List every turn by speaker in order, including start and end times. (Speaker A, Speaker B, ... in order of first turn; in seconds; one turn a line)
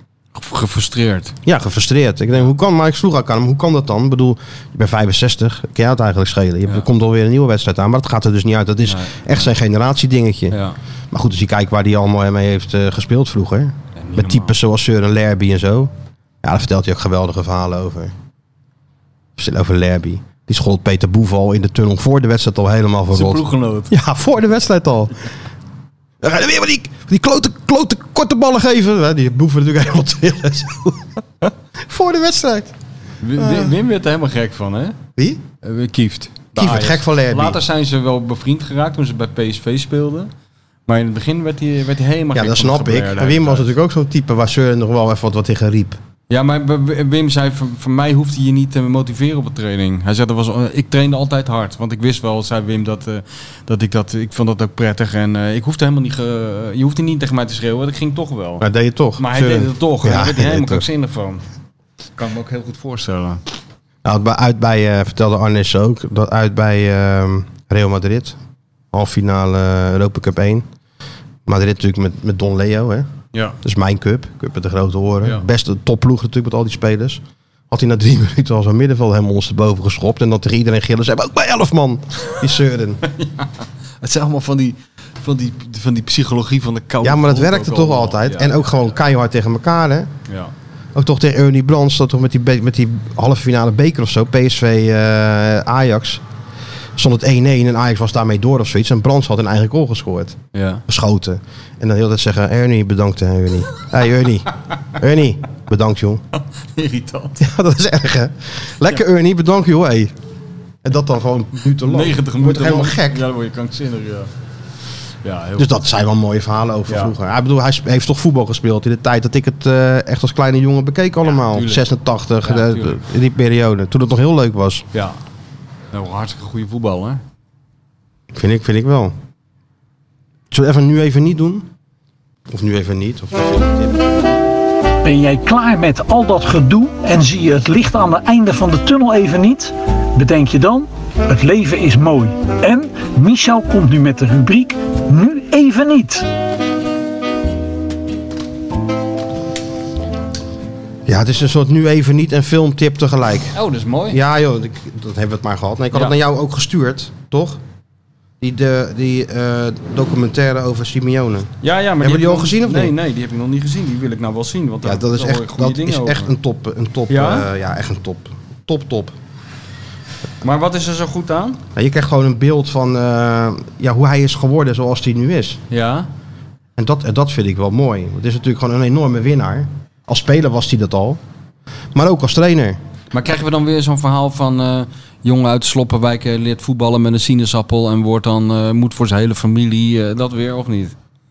Speaker A: 0.3-1.4
Speaker B: 1.4-10.6
Speaker A: 8.9-9.5
Speaker A: 10.5-10.8
Speaker B: 11.1-15.9
Speaker A: 14.0-14.6
Speaker B: 16.4-18.1
Speaker B: 19.4-25.2
Speaker A: 23.1-23.9
Speaker B: 26.2-31.1
Speaker B: 31.8-32.7
Speaker A: 33.2-35.0
Speaker B: 33.4-33.8
Speaker B: 35.2-35.4
Speaker A: 35.6-40.3
Speaker B: 36.6-37.6
Speaker A: 40.9-43.7
Speaker B: 42.3-46.0
Speaker A: 46.3-58.6
Speaker B: 58.6-60.9
Speaker A: 59.2-61.4
Speaker A: 62.2-63.4
Speaker B: 64.0-68.4
Speaker B: 68.9-70.7
Speaker B: 71.5-73.1
Speaker B: 73.6-83.0
Speaker A: 83.2-83.5
Speaker A: 84.0-88.6
Speaker B: 87.0-90.1
Speaker B: 91.0-96.2
Speaker B: 97.0-106.2
Speaker A: 100.5-100.8
Speaker A: 106.4-107.4
Speaker B: 107.4-110.1
Speaker B: 110.8-113.2
Speaker A: 111.8-114.3
Speaker A: 115.2-115.7
Speaker B: 115.6-124.9
Speaker A: 116.9-117.1
Speaker A: 121.2-121.9
Speaker A: 122.4-123.0
Speaker A: 125.9-127.2
Speaker B: 128.3-129.1
Speaker B: 130.5-131.7
Speaker B: 132.5-134.2
Speaker C: 135.0-146.3
Speaker B: 151.1-153.6
Speaker A: 153.5-154.2
Speaker B: 154.1-157.6
Speaker B: 158.4-162.9
Speaker A: 161.6-166.3
Speaker B: 164.8-169.1
Speaker A: 167.1-167.5
Speaker A: 170.4-171.6
Speaker B: 171.8-175.6
Speaker A: 175.7-176.1
Speaker B: 176.8-181.2
Speaker B: 181.9-182.8
Speaker A: 183.1-191.0